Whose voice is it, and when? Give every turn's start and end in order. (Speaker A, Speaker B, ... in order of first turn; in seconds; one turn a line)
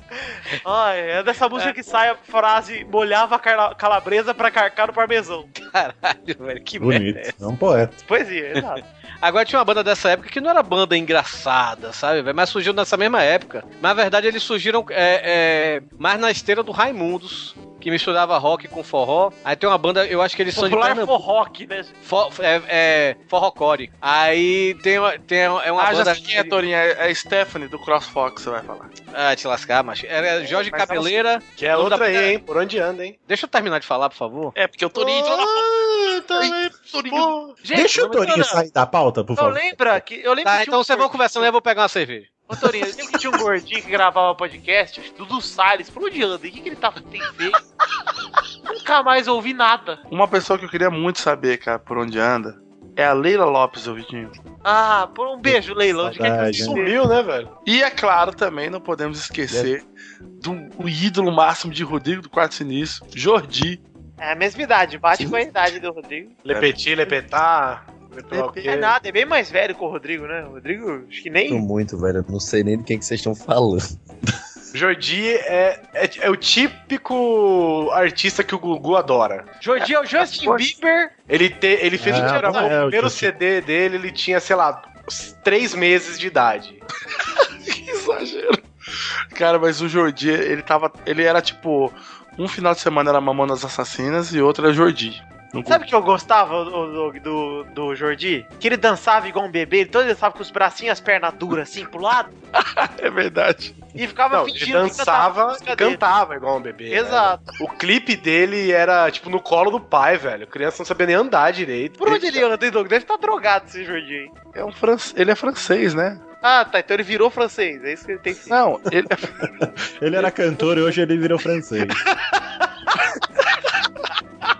Speaker A: 0.3-5.5
Speaker B: 5.6-7.4
Speaker C: 6.8-8.0
Speaker A: 8.1-8.8
Speaker B: 8.6-21.2
Speaker A: 20.5-21.9
Speaker B: 22.0-26.6
Speaker D: 25.8-28.9
Speaker B: 29.1-32.4
Speaker D: 30.5-31.2
Speaker E: 31.5-33.2
Speaker B: 33.3-34.5
Speaker D: 34.5-35.7
Speaker E: 34.9-37.6
Speaker D: 36.3-37.3
Speaker A: 37.6-38.6
Speaker C: 37.7-40.0
Speaker A: 39.4-41.5
Speaker B: 40.4-42.4
Speaker A: 42.5-47.6
Speaker A: 48.7-50.0
Speaker D: 50.1-54.4
Speaker A: 54.6-57.0
Speaker C: 55.4-56.8
Speaker E: 56.5-57.5
Speaker D: 57.6-59.8
Speaker F: 59.5-59.7
Speaker D: 60.4-63.8
Speaker A: 64.2-66.4
Speaker E: 66.4-68.9
Speaker A: 68.6-71.6
Speaker F: 71.5-73.8
Speaker E: 74.7-79.5
Speaker A: 79.6-81.1
Speaker D: 79.8-80.7
Speaker E: 81.3-86.8
Speaker C: 82.0-83.3
Speaker A: 82.0-82.8
Speaker D: 87.7-88.6
Speaker D: 89.3-95.8
Speaker A: 95.7-102.3
Speaker D: 102.6-103.8
Speaker A: 104.0-106.0
Speaker E: 104.3-112.4
Speaker A: 106.9-107.5
Speaker A: 112.0-114.3
Speaker D: 114.5-116.2
Speaker A: 116.4-118.5
Speaker D: 118.5-119.5
Speaker C: 119.6-122.0